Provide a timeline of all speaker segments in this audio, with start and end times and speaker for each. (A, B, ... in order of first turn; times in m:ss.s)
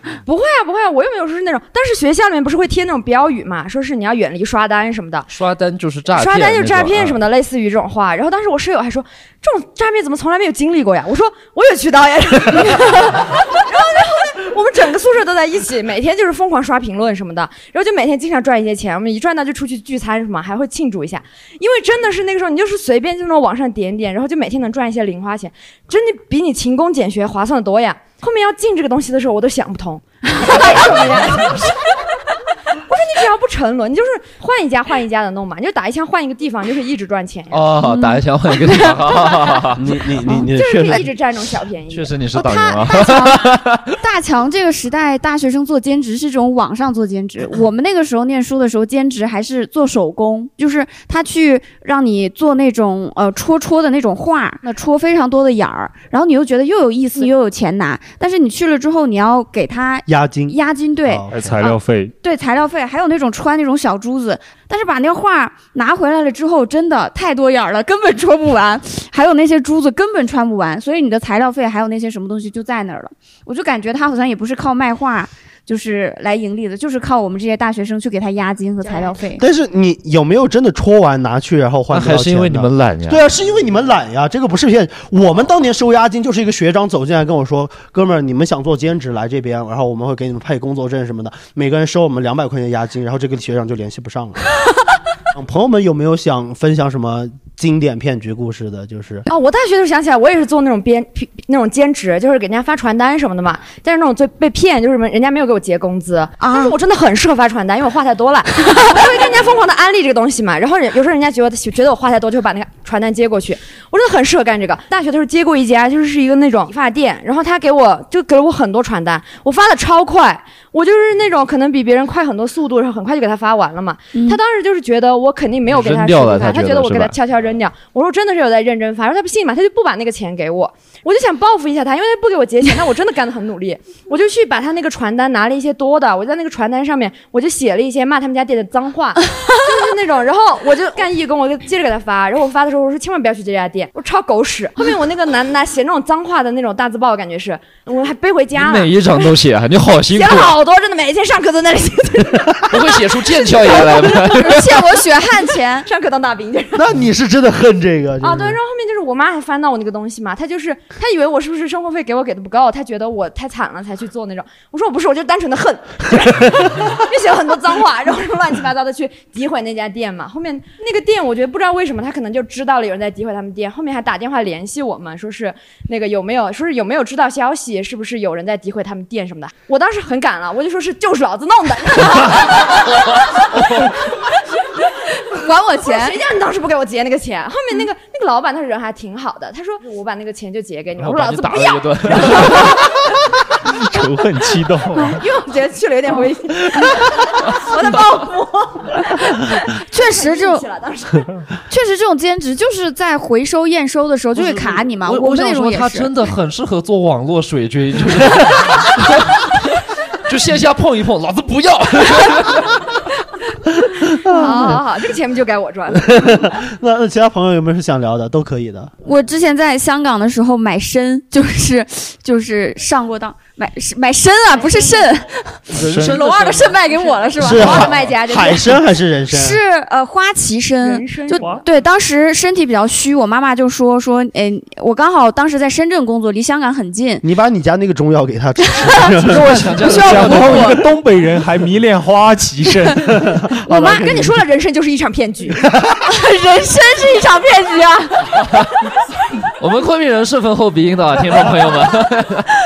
0:00.2-0:05.3 A
0:05.3-0:07.2 B
0:06.1-0:32.1 A
0:32.8-0:37.6 A
0:37.5-0:39.8 B
0:37.8-0:39.6 C
0:39.8-0:41.1 D
0:40.4-0:42.2 A
0:41.9-0:43.9 B
0:42.3-1:01.3 C
1:00.1-1:01.3 D
1:01.3-1:02.1 E
1:02.2-1:19.4 C
1:18.8-1:19.2 A
1:19.4-1:34.4 D
1:21.9-1:23.2 B
1:35.3-1:39.2 D
1:39.3-2:29.2 A
1:46.4-1:46.7 C
2:04.1-2:04.4 C
2:05.7-2:07.1 B
2:28.6-2:30.5 B
2:30.1-2:33.1 A
2:32.7-2:34.8 B
2:33.7-2:34.1 A
2:34.2-2:35.8 C
2:35.8-2:36.8 A
2:36.7-2:38.6 D
2:38.2-3:04.2 A
3:05.3-3:06.2 C
3:05.8-3:13.0 A
3:11.0-3:12.7 B
3:13.9-3:15.2 E
3:15.0-3:21.3 A
3:19.9-3:20.6 C
3:21.7-3:26.1 C
3:24.3-3:29.4 B
3:30.2-3:32.7 B
3:34.2-3:34.8 D
3:34.3-3:34.8 C
3:34.3-3:36.5 A
3:36.0-3:38.9 D
3:39.0-3:48.6 C
3:44.5-3:45.0 A
3:45.8-3:47.1 B
3:45.8-3:46.2 E
3:47.4-3:49.6 D
3:47.5-3:47.9 E
3:49.3-3:57.2 C
3:50.8-3:51.6 A
3:57.2-3:59.4 D
3:58.7-3:59.2 C
3:59.2-4:00.8 B
3:59.8-4:00.8 C
3:59.8-4:03.2 E
4:03.2-4:04.4 D
4:03.7-4:05.6 A
4:05.6-4:05.9 D
4:06.1-4:08.4 C
4:09.6-4:12.4 B